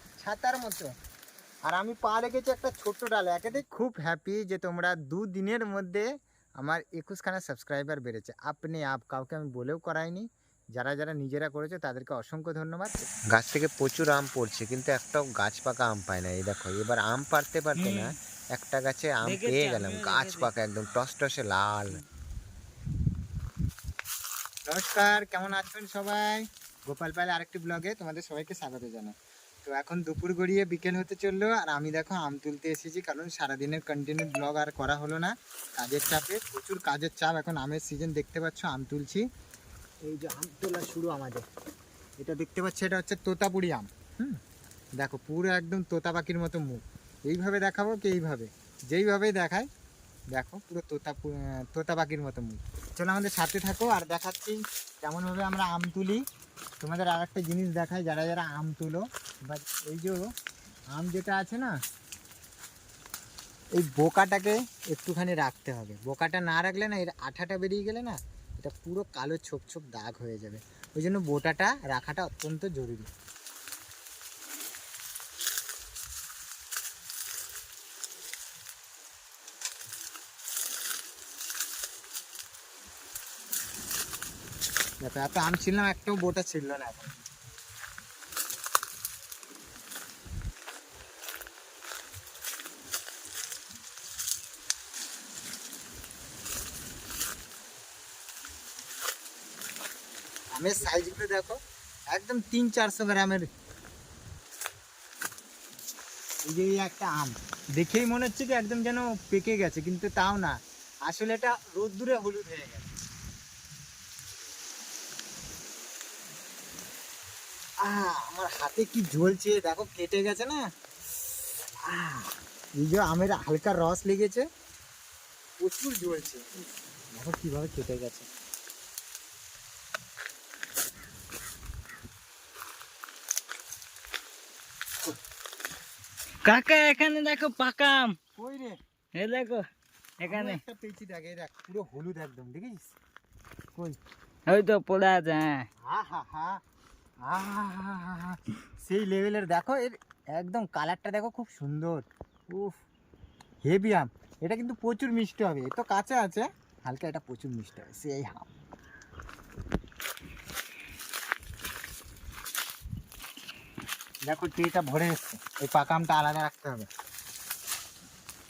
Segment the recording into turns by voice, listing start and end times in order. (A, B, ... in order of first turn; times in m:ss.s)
0:00.2-0:00.9 A
0:01.6-0:06.1 A
0:06.6-0:13.0 A
0:13.3-0:22.0 B
0:17.8-0:18.2 C
0:19.2-0:20.5 C
0:24.6-0:39.2 A
0:40.0-0:41.4 A
0:42.2-0:44.4 A
0:45.0-0:49.7 A
0:50.3-0:56.2 A
0:56.8-1:00.3 A
1:00.9-1:01.7 A
1:03.7-1:13.1 A
1:25.0-1:27.2 A
1:40.5-1:41.6 A
1:42.1-1:43.5 A
1:46.4-1:52.9 A
1:57.8-2:00.7 A
2:01.8-2:04.4 A
2:05.6-2:06.5 A
2:07.1-2:08.3 A
2:16.4-2:18.2 C
2:18.4-2:18.8 A
2:19.2-2:19.6 C
2:20.2-2:20.6 C
2:20.2-2:23.0 A
2:24.5-2:25.6 C
2:25.8-2:26.6 A
2:27.2-2:32.8 A
2:33.6-2:38.5 A
2:44.3-2:46.9 A